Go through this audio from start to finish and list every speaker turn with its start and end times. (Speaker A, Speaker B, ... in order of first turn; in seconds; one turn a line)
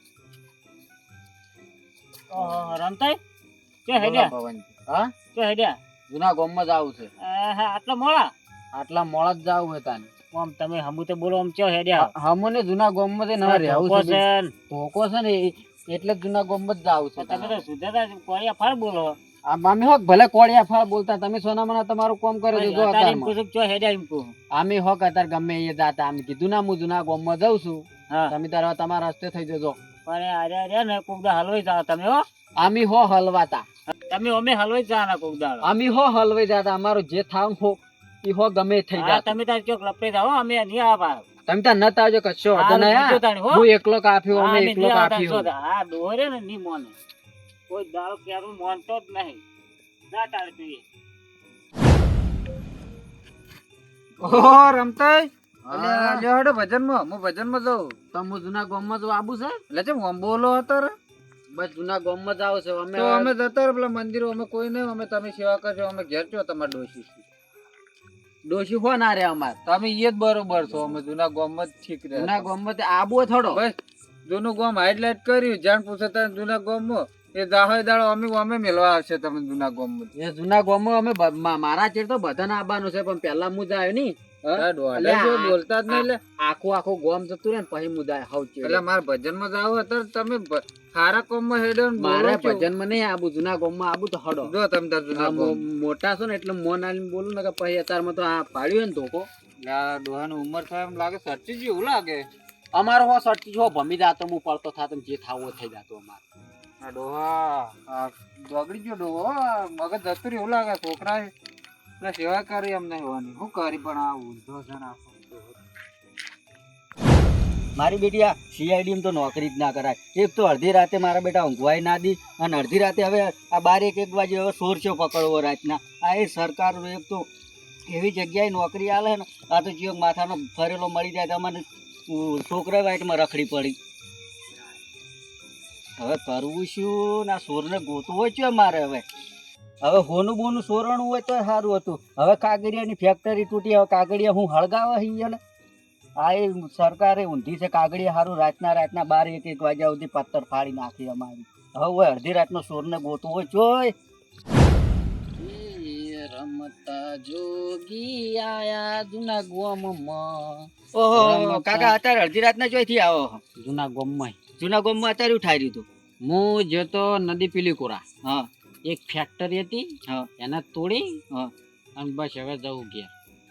Speaker A: 2.3-3.2
Speaker B: 2.4-2.7
Speaker A: 3.9-4.3
Speaker B: 4.0-5.1
Speaker A: 5.3-5.8
Speaker B: 6.1-7.1
Speaker A: 7.2-8.3
Speaker B: 8.7-10.2
Speaker A: 10.2-12.1
Speaker B: 12.0-17.6
Speaker A: 13.4-14.5
Speaker A: 17.2-19.2
Speaker B: 19.5-23.4
Speaker A: 22.5-24.3
Speaker B: 24.5-29.8
Speaker A: 28.1-28.4
Speaker A: 30.1-32.3
Speaker B: 32.6-33.7
Speaker A: 34.1-35.7
Speaker B: 35.6-39.4
Speaker A: 39.0-41.3
Speaker B: 41.5-45.5
Speaker A: 42.5-43.7
Speaker A: 44.3-47.0
Speaker A: 47.7-49.4
Speaker A: 50.1-50.8
Speaker C: 54.2-58.0
Speaker B: 55.7-56.2
Speaker B: 58.1-59.6
Speaker C: 59.7-60.9
Speaker B: 61.5-63.4
Speaker C: 63.0-67.2
Speaker B: 68.5-69.6
Speaker C: 69.7-72.5
Speaker B: 72.1-73.6
Speaker C: 73.5-80.1
Speaker B: 80.2-88.8
Speaker C: 84.4-86.2
Speaker C: 88.6-92.7
Speaker B: 92.0-94.5
Speaker C: 94.4-95.7
Speaker B: 95.1-99.3
Speaker C: 99.6-102.3
Speaker B: 102.7-106.2
Speaker C: 106.8-111.3
Speaker C: 112.0-115.5
Speaker D: 117.8-127.3
Speaker D: 127.9-133.8
Speaker D: 136.0-139.0
Speaker D: 139.8-145.4
Speaker D: 146.2-153.9
Speaker B: 155.4-162.0
Speaker D: 160.9-163.4
Speaker B: 163.6-164.4
Speaker D: 164.6-165.9
Speaker B: 166.2-168.0
Speaker B: 168.8-169.9
Speaker B: 170.4-171.2
Speaker B: 172.0-173.1